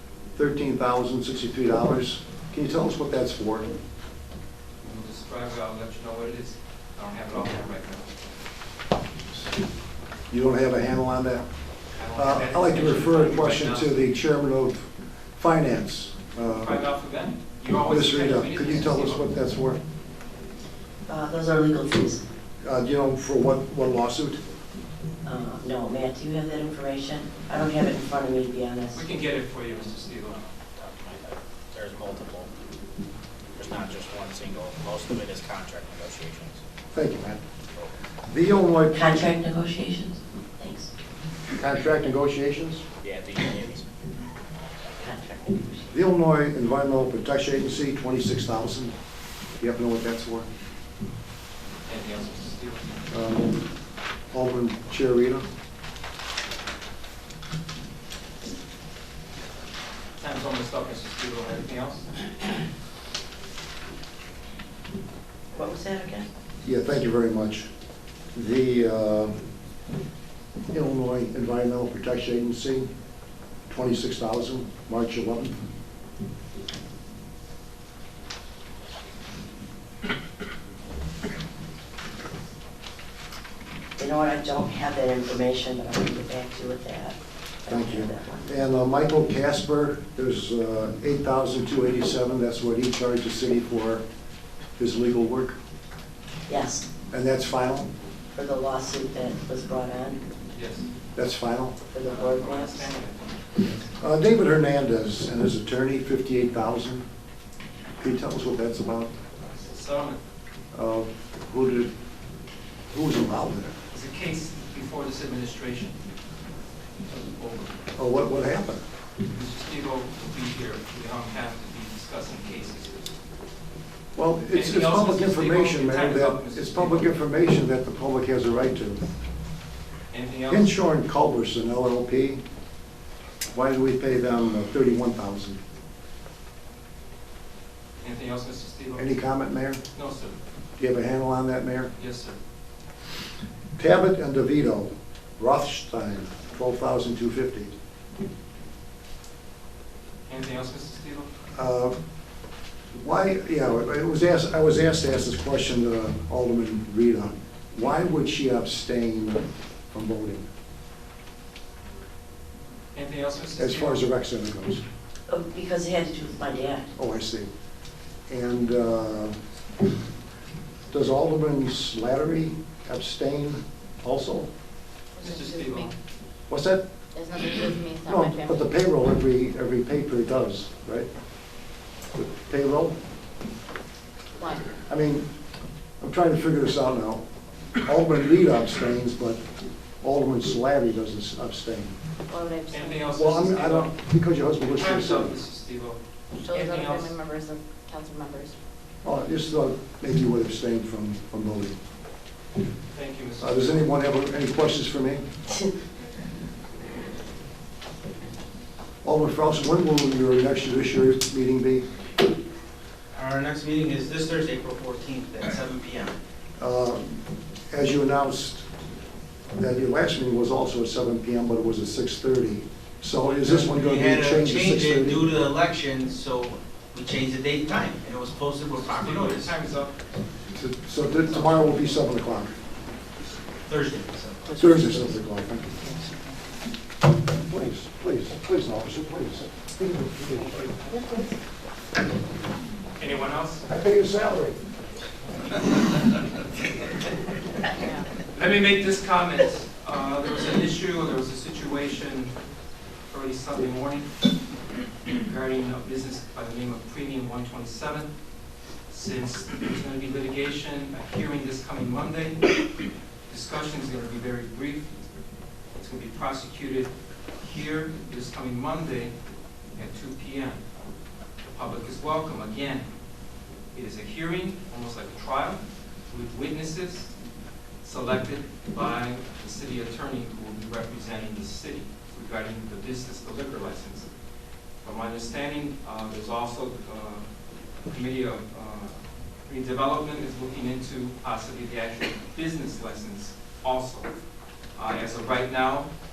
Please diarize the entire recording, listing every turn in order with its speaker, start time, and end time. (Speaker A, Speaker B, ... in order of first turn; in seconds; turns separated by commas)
Speaker A: 0.3-3.7, Speaker B: 4.8-8.2, Speaker A: 10.3-11.5, Speaker B: 11.9-14.0, Speaker A: 12.2-16.8, Speaker B: 16.5-19.3, Speaker A: 17.9-19.8, Speaker C: 21.1-22.2, Speaker A: 22.6-24.4, Speaker C: 25.2-29.1, Speaker B: 28.9-30.4, Speaker D: 30.3-32.5, Speaker D: 33.6-36.6, Speaker A: 36.9-37.4, Speaker A: 38.3-39.3, Speaker C: 38.9-40.9, Speaker A: 41.6-42.8, Speaker D: 43.0-43.9, Speaker C: 45.0-46.0, Speaker A: 45.9-48.9, Speaker A: 49.6-50.5, Speaker B: 51.9-53.0, Speaker A: 53.1-53.7, Speaker A: 54.3-55.5, Speaker B: 60.2-62.2, Speaker C: 65.5-66.3, Speaker A: 66.6-67.7, Speaker A: 68.3-69.3, Speaker A: 70.7-72.9, Speaker A: 73.7-75.6, Speaker C: 84.0-88.5, Speaker A: 87.7-94.0, Speaker A: 94.8-95.6, Speaker C: 96.5-96.9, Speaker A: 97.1-97.9, Speaker C: 98.3-100.2, Speaker B: 100.5-100.9, Speaker A: 101.2-101.8, Speaker C: 101.9-102.9, Speaker B: 102.0-103.9, Speaker A: 104.0-107.1, Speaker A: 108.0-109.1, Speaker B: 109.5-110.2, Speaker A: 110.7-111.9, Speaker A: 112.9-113.8, Speaker B: 113.9-116.0, Speaker B: 117.1-117.8, Speaker A: 118.0-118.8, Speaker B: 119.3-123.1, Speaker A: 124.2-129.0, Speaker B: 124.5-127.2, Speaker B: 130.1-130.8, Speaker A: 130.5-132.4, Speaker A: 133.5-135.6, Speaker B: 138.0-139.2, Speaker A: 139.0-139.8, Speaker B: 139.9-140.4, Speaker A: 140.8-141.9, Speaker B: 142.0-142.4, Speaker A: 143.8-147.7, Speaker B: 150.3-151.3, Speaker A: 151.5-151.9, Speaker A: 152.9-160.5, Speaker B: 162.9-164.1, Speaker A: 163.6-164.8, Speaker C: 165.3-166.9, Speaker A: 167.0-167.5, Speaker A: 168.3-169.4, Speaker A: 170.9-174.5, Speaker E: 175.2-175.9, Speaker B: 175.2-175.9, Speaker A: 176.5-176.9, Speaker E: 177.1-178.7, Speaker A: 178.1-181.1, Speaker A: 182.1-183.0, Speaker E: 184.4-184.7, Speaker A: 184.8-185.3, Speaker A: 186.0-187.2, Speaker A: 187.8-189.4, Speaker A: 190.0-192.0, Speaker E: 192.3-193.2, Speaker B: 192.7-194.0, Speaker A: 193.2-195.4, Speaker B: 194.6-197.2, Speaker E: 196.4-198.6, Speaker A: 199.0-201.8, Speaker B: 202.9-203.9, Speaker A: 203.4-205.3, Speaker A: 209.0-211.9, Speaker F: 213.1-216.2, Speaker A: 216.6-218.7, Speaker A: 219.6-225.3, Speaker F: 223.4-229.5, Speaker B: 228.9-229.9, Speaker A: 230.5-232.6, Speaker F: 233.7-234.5, Speaker E: 234.5-235.1, Speaker A: 234.6-235.7, Speaker E: 235.8-236.2, Speaker A: 237.4-240.8, Speaker E: 240.8-241.4, Speaker B: 243.0-243.7, Speaker A: 243.7-244.6, Speaker E: 247.8-248.1, Speaker B: 248.3-252.3, Speaker B: 253.1-254.3, Speaker B: 255.1-258.1, Speaker B: 258.9-262.6, Speaker B: 263.3-264.9, Speaker B: 265.8-269.1, Speaker B: 269.8-270.6, Speaker B: 271.5-272.9, Speaker B: 273.7-277.1, Speaker B: 277.8-284.1, Speaker B: 284.8-287.3, Speaker B: 287.9-294.2, Speaker B: 294.8-295.9